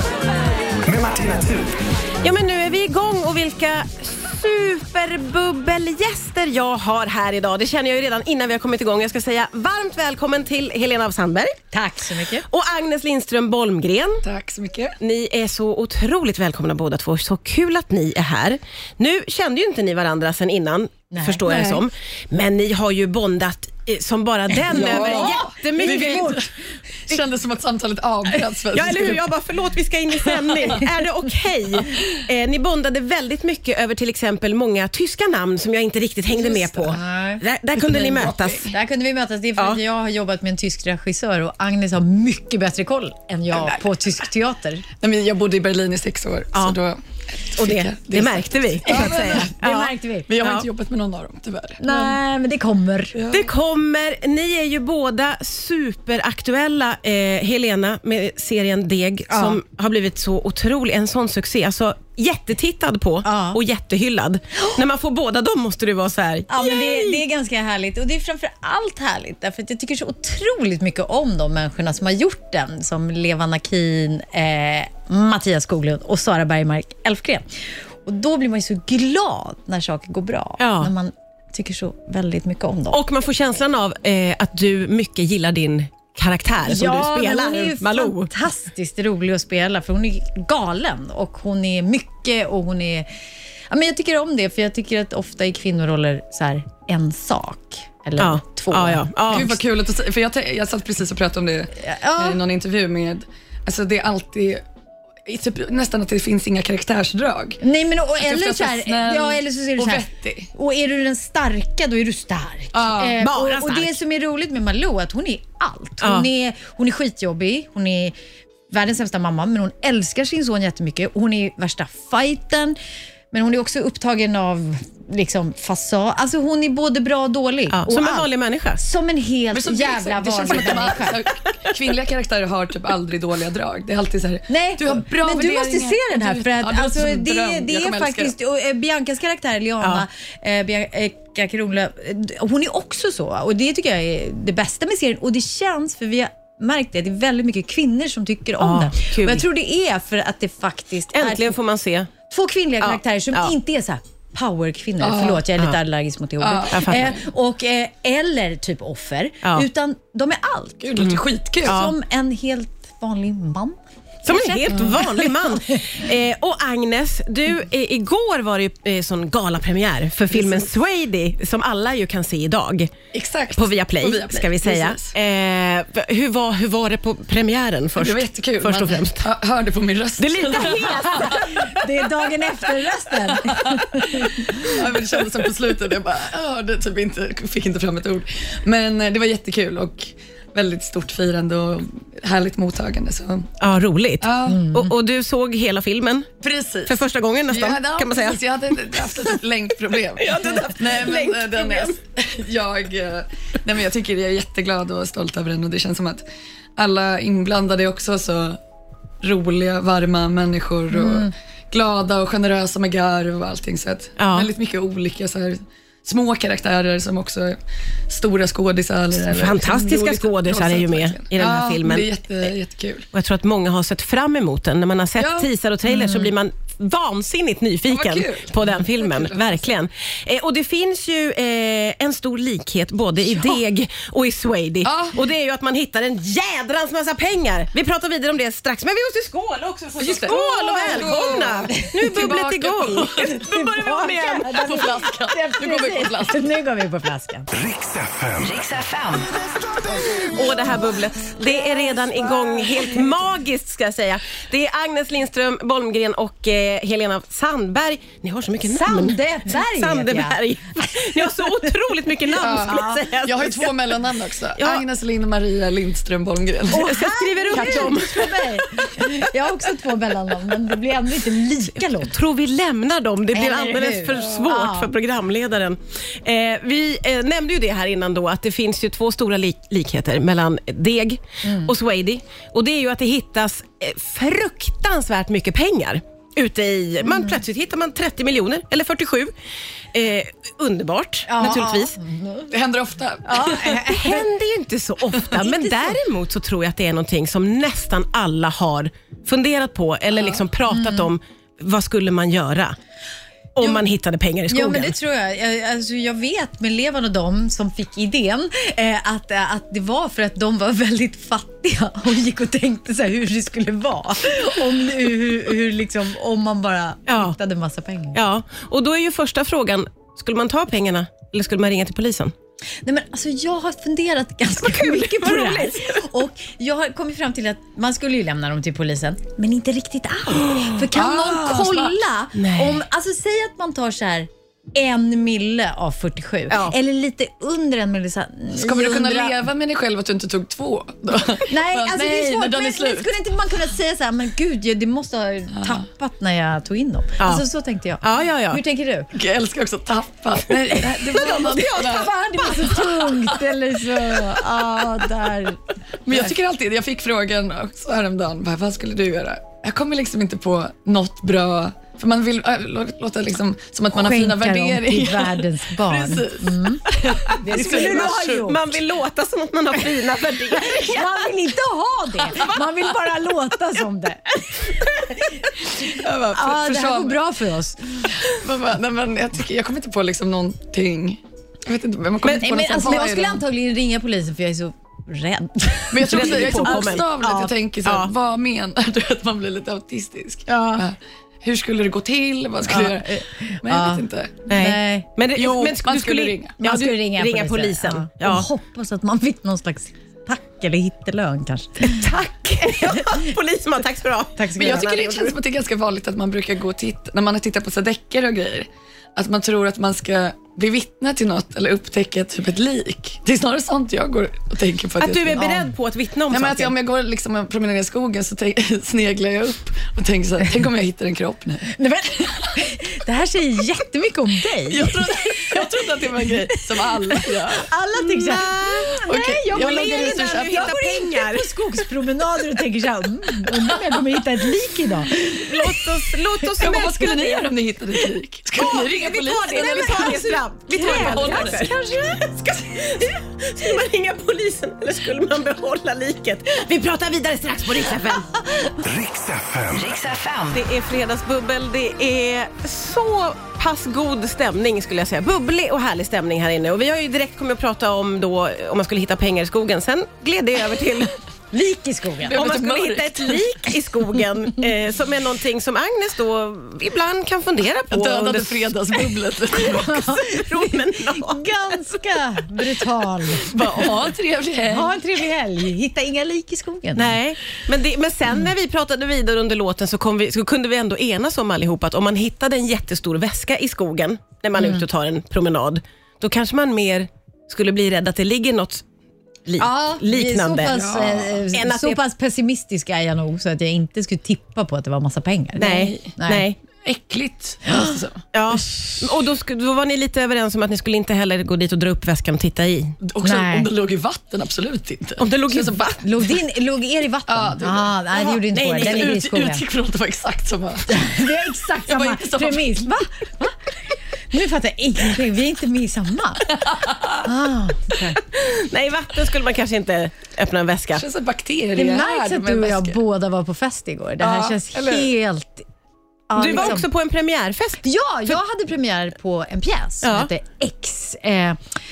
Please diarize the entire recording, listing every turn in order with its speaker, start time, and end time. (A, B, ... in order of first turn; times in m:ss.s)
0:00.8-0:01.8 A
0:02.2-0:11.6 B
0:11.7-0:12.4 C
0:12.4-0:14.2 B
0:14.2-0:15.0 D
0:15.0-0:26.4 B
0:21.1-0:21.6 C
0:21.5-0:21.8 D
0:24.7-0:26.5 D
0:24.7-0:26.5 C
0:27.1-0:29.3 D
0:28.7-0:38.7 B
0:36.4-0:36.9 D
0:36.9-0:37.4 C
0:37.8-0:38.7 D
0:38.7-0:44.8 C
0:43.5-0:43.8 D
0:45.0-0:47.0 D
0:47.5-0:50.7 B
0:47.6-0:49.6 D
0:48.9-0:50.3 C
0:50.3-0:52.2 D
0:51.8-0:53.2 C
0:53.2-0:53.5 D
0:53.3-1:07.2 B
0:59.3-0:59.6 C
1:03.2-1:03.6 C
1:06.5-1:23.0 C
1:20.6-1:20.9 B
1:22.9-1:28.3 B
1:26.6-1:33.1 C
1:33.7-1:39.4 C
1:38.2-1:39.6 B
1:39.3-1:44.6 D
1:41.8-1:42.4 C
1:45.3-1:47.6 D
1:47.6-1:58.2 C
1:48.2-1:50.5 D
1:52.7-1:53.2 D
1:53.2-1:54.0 B
1:56.0-1:56.3 B
1:58.7-2:02.8 C
2:03.3-2:11.2 C
2:07.7-2:08.8 B
2:09.5-2:18.3 D
2:14.5-2:31.6 C
2:28.6-2:29.4 B
2:31.1-2:32.1 B
2:32.3-2:41.0 C
2:32.8-2:33.5 B
2:35.0-2:35.5 D
2:36.4-2:37.2 D
2:36.7-2:37.1 B
2:40.8-2:41.8 D
2:41.0-2:41.9 B
2:41.6-2:46.1 C
2:44.2-2:52.9 B
2:50.4-2:50.7 D
2:53.1-2:55.2 D
2:53.5-2:59.3 B
2:58.0-3:01.4 D
3:00.2-3:01.8 B
3:00.5-3:04.9 C
3:03.4-3:13.5 D
3:13.6-3:16.3 B
3:14.2-3:14.7 D
3:14.5-3:14.9 C
3:16.4-3:26.2 D
3:16.9-3:19.3 B
3:20.2-3:22.0 B
3:26.8-3:28.6 D
3:29.2-3:37.6 D
3:30.9-3:31.3 C
3:34.2-3:34.5 B
3:38.1-3:43.1 D
3:39.2-3:42.1 B
3:43.1-4:04.8 B
3:45.2-3:45.5 D
3:45.9-3:46.3 C
3:47.9-3:49.5 D
3:54.8-3:55.2 D
4:00.0-4:03.4 D
4:03.2-4:07.5 C
4:04.5-4:06.4 D
4:07.5-4:08.9 A
4:10.2-4:23.8 B
4:18.6-4:23.1 C
4:22.4-4:27.0 D
4:24.6-4:24.8 B
4:26.7-4:28.9 B
4:26.8-4:32.2 C
4:27.5-4:28.0 D
4:32.0-4:49.3 B
4:33.3-4:34.9 C
4:41.4-4:41.7 C
4:47.1-4:47.4 C
4:49.9-4:52.0 B
4:51.3-4:52.5 C
4:52.5-4:53.8 D
4:53.2-4:54.3 C
4:53.3-5:02.8 B
4:55.3-4:56.0 C
5:00.2-5:01.1 C
5:03.6-5:04.9 B
5:04.5-5:18.2 C
5:17.1-5:17.4 B
5:18.1-5:22.3 B
5:22.8-5:39.4 C
5:24.6-5:26.1 B
5:30.9-5:32.0 D
5:32.4-5:32.8 B
5:36.5-5:36.8 B
5:38.6-5:43.1 D
5:41.5-5:49.1 C
5:45.6-5:45.8 D
5:47.2-5:47.4 B
5:48.0-5:48.6 B
5:49.1-5:53.4 D
5:50.7-5:56.3 C
5:54.0-5:54.4 D
5:56.1-6:08.6 D
6:03.9-6:06.8 C
6:07.0-6:11.1 B
6:07.4-6:08.6 C
6:10.5-6:18.2 C
6:15.8-6:17.2 D
6:18.2-6:23.4 D
6:22.2-6:26.8 C
6:25.9-6:34.4 D
6:26.1-6:28.1 B
6:30.5-6:30.8 B
6:32.6-6:35.1 C
6:34.5-6:38.5 B
6:35.4-6:36.6 D
6:36.6-6:43.4 C
6:41.8-6:45.4 B
6:44.4-6:45.0 C
6:44.6-6:55.5 D
6:55.0-6:56.7 B
6:55.4-6:55.7 C
6:56.3-7:01.8 D
7:01.7-7:15.9 C
7:04.7-7:07.7 D
7:07.9-7:11.6 B
7:09.0-7:10.9 D
7:15.3-7:17.5 B
7:16.6-7:21.7 D
7:18.6-7:21.8 B
7:19.4-7:23.2 C
7:23.0-7:28.3 B
7:28.1-7:28.8 C
7:28.8-7:30.1 A
7:30.4-7:41.2 B
7:41.5-7:42.4 C
7:42.3-7:43.6 D
7:42.3-7:48.8 B
7:47.9-7:50.2 D
7:49.6-7:53.9 C
7:50.2-7:51.4 B
7:53.5-7:55.0 D
7:53.5-7:53.9 B
7:54.6-7:57.2 C
7:57.0-8:08.8 B
8:04.6-8:04.8 C
8:09.5-8:10.8 B
8:09.6-8:16.5 C
8:10.6-8:11.5 D
8:11.5-8:12.0 B
8:15.6-8:16.6 B
8:16.8-8:18.2 D
8:17.7-8:18.0 C
8:18.3-8:23.0 B
8:23.0-8:26.0 D
8:23.2-8:23.7 C
8:25.2-8:26.0 B
8:26.0-8:29.6 C
8:27.3-8:31.1 D
8:28.5-8:29.2 B
8:30.9-8:33.6 C
8:31.8-8:32.9 D
8:34.3-8:36.6 C
8:36.6-8:37.2 D
8:37.2-8:38.2 C
8:38.2-8:41.0 B
8:41.0-8:43.0 D
8:41.8-8:45.7 C
8:44.2-8:45.1 D
8:46.3-8:46.9 C
8:46.4-8:47.8 B
8:47.8-8:51.6 C
8:50.0-8:50.3 B